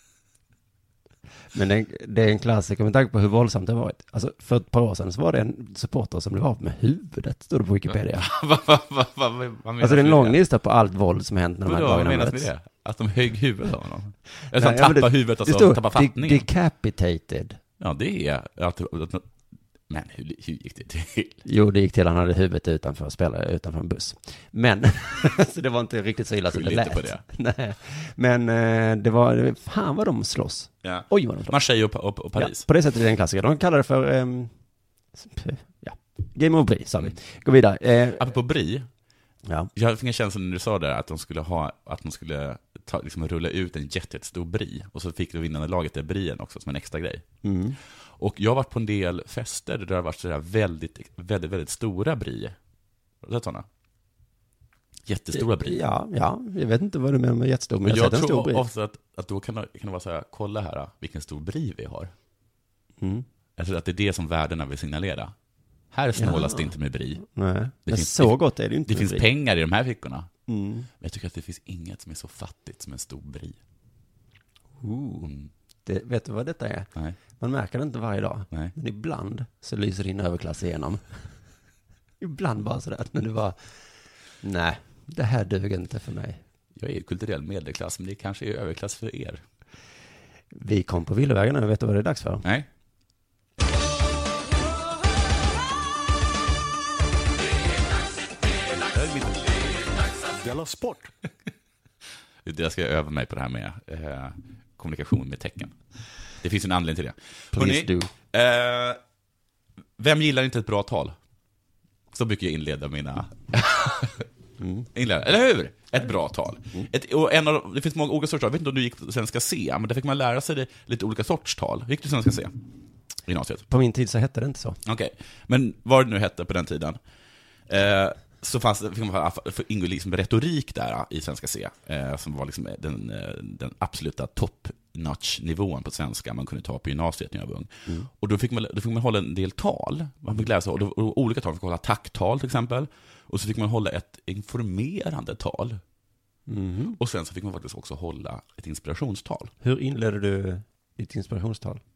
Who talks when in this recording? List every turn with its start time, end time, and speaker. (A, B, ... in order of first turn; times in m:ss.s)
0:01.5-0:08.3 A
0:08.2-0:10.4 B
0:09.8-0:12.5 A
0:11.6-0:16.4 B
0:14.5-0:17.6 A
0:17.8-0:19.3 B
0:19.9-0:21.4 B
0:21.4-0:31.6 A
0:26.5-0:27.2 B
0:30.8-0:32.6 B
0:32.4-0:34.5 A
0:35.1-0:38.3 A
0:38.2-0:38.8 B
0:39.8-0:47.2 B
0:47.4-0:47.8 A
0:48.2-0:52.6 B
0:53.2-0:53.6 B
0:55.1-0:55.8 B
0:55.3-0:58.6 A
0:57.8-1:02.1 B
1:03.0-1:03.2 A
1:03.6-1:05.3 B
1:05.9-1:07.2 B
1:06.2-1:06.7 A
1:07.2-1:09.2 A
1:07.9-1:10.3 B
1:10.5-1:10.9 A
1:11.0-1:13.6 B
1:14.8-1:15.3 A
1:15.8-1:21.0 A
1:22.2-1:23.6 A
1:24.4-1:26.4 A
1:26.8-1:29.4 B
1:30.5-1:32.4 A
1:38.9-1:39.6 B
1:42.4-1:45.7 B
1:46.4-1:49.0 B
1:47.5-1:48.1 A
1:50.0-1:51.1 B
1:52.1-1:54.2 B
1:54.6-1:54.9 A
1:54.9-2:02.5 B
2:03.3-2:03.6 B
2:03.7-2:04.8 A
2:04.8-2:07.0 B
2:07.7-2:25.8 B
2:26.5-2:27.0 A
2:27.0-2:29.5 B
2:29.6-2:31.8 A